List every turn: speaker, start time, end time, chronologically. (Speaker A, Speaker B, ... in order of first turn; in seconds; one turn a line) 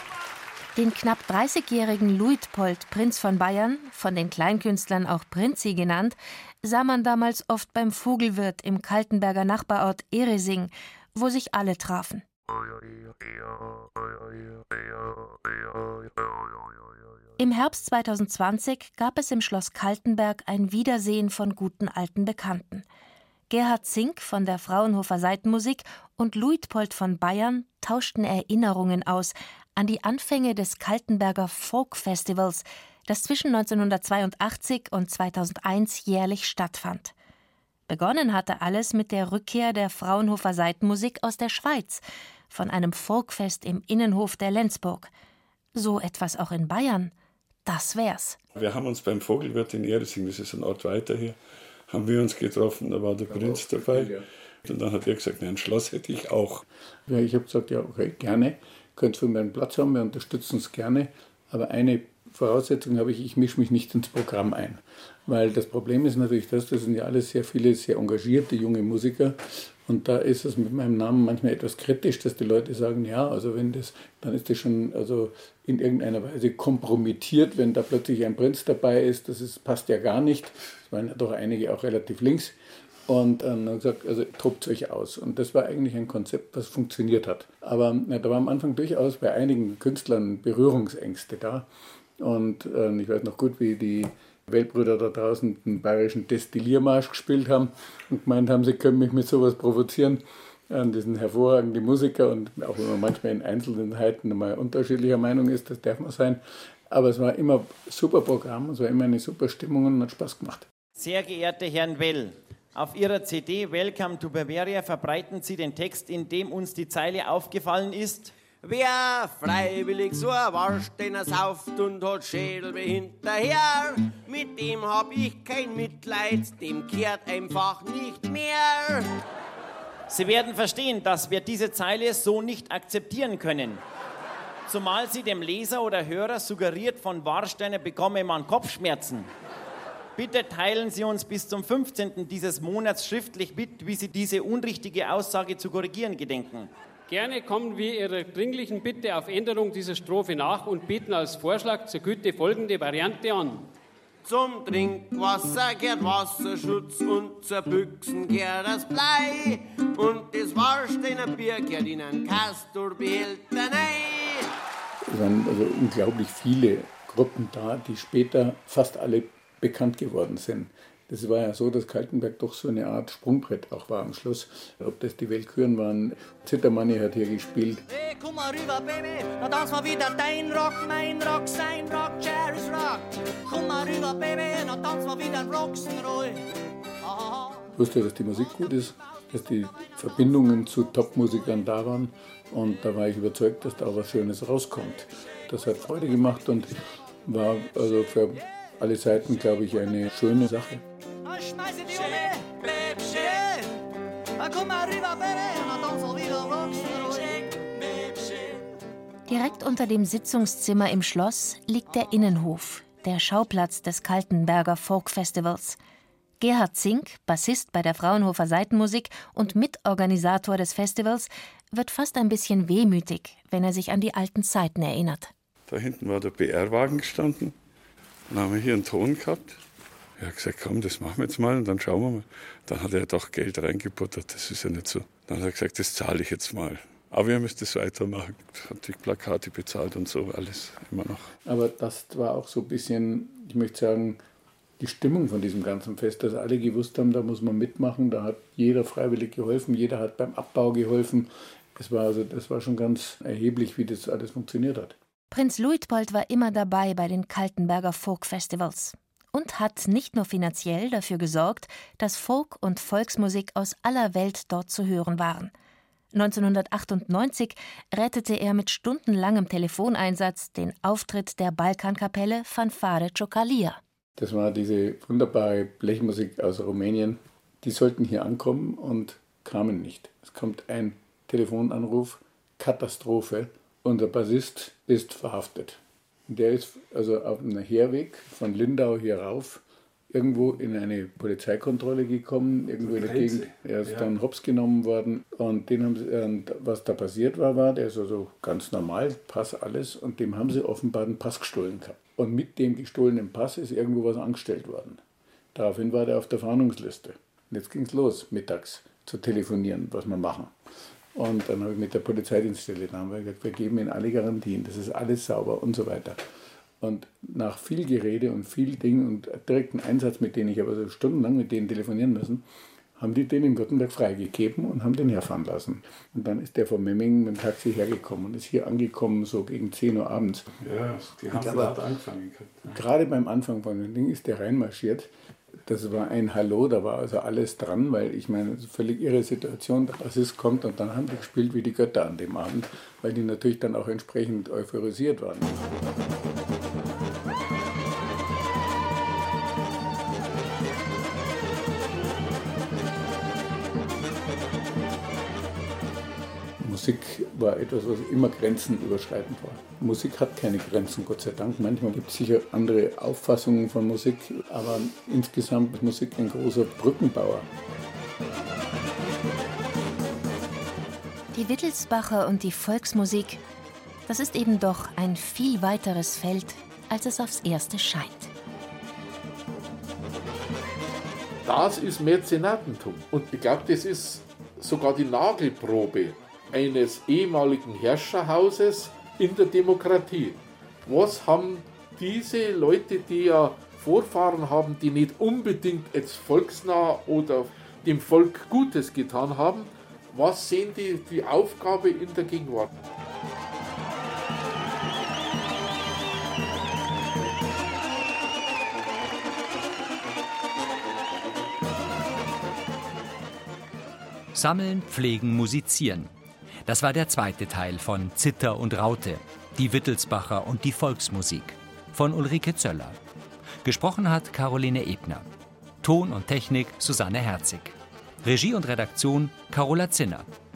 Speaker A: 0.8-12.2
Speaker A: 17.4-22.8
Speaker A: 23.5-37.1
Speaker A: 37.9-45.1
Speaker A: 45.7-47.1
Speaker A: 47.6-48.4
Speaker B: 48.5-51.4
Speaker B: 51.9-56.6
Speaker C: 53.7-54.0
Speaker C: 57.1-82.5
Speaker C: 83.1-91.7
Speaker C: 92.2-110.7
Speaker D: 111.0-118.3
Speaker E: 118.6-129.1
Speaker D: 130.1-133.8
Speaker D: 134.7-139.3
Speaker D: 140.2-146.7
Speaker F: 147.1-153.7
Speaker E: 154.2-164.5
Speaker C: 165.1-177.8
Speaker G: 177.9-186.4
Speaker G: 187.0-187.7
Speaker C: 187.7-200.8
Speaker G: 201.2-203.8
Speaker G: 204.4-208.7
Speaker A: 209.3-215.8
Speaker A: 216.4-225.3
Speaker B: 225.7-227.5
Speaker B: 228.3-229.6
Speaker B: 230.2-241.3
Speaker C: 241.4-244.2
Speaker C: 244.8-254.9
Speaker A: 255.3-265.5
Speaker A: 266.1-273.8
Speaker C: 274.2-305.0
Speaker B: 293.0-293.3
Speaker C: 305.5-310.5
Speaker C: 311.1-316.2
Speaker C: 316.8-322.4
Speaker C: 323.0-330.4
Speaker B: 330.6-332.7
Speaker C: 332.7-335.1
Speaker C: 335.6-345.6
Speaker C: 356.6-367.5
Speaker A: 371.3-373.4
Speaker A: 374.1-378.3
Speaker H: 381.4-402.7
Speaker I: 414.3-416.1
Speaker I: 416.6-423.0
Speaker I: 423.6-425.3
Speaker I: 425.8-430.3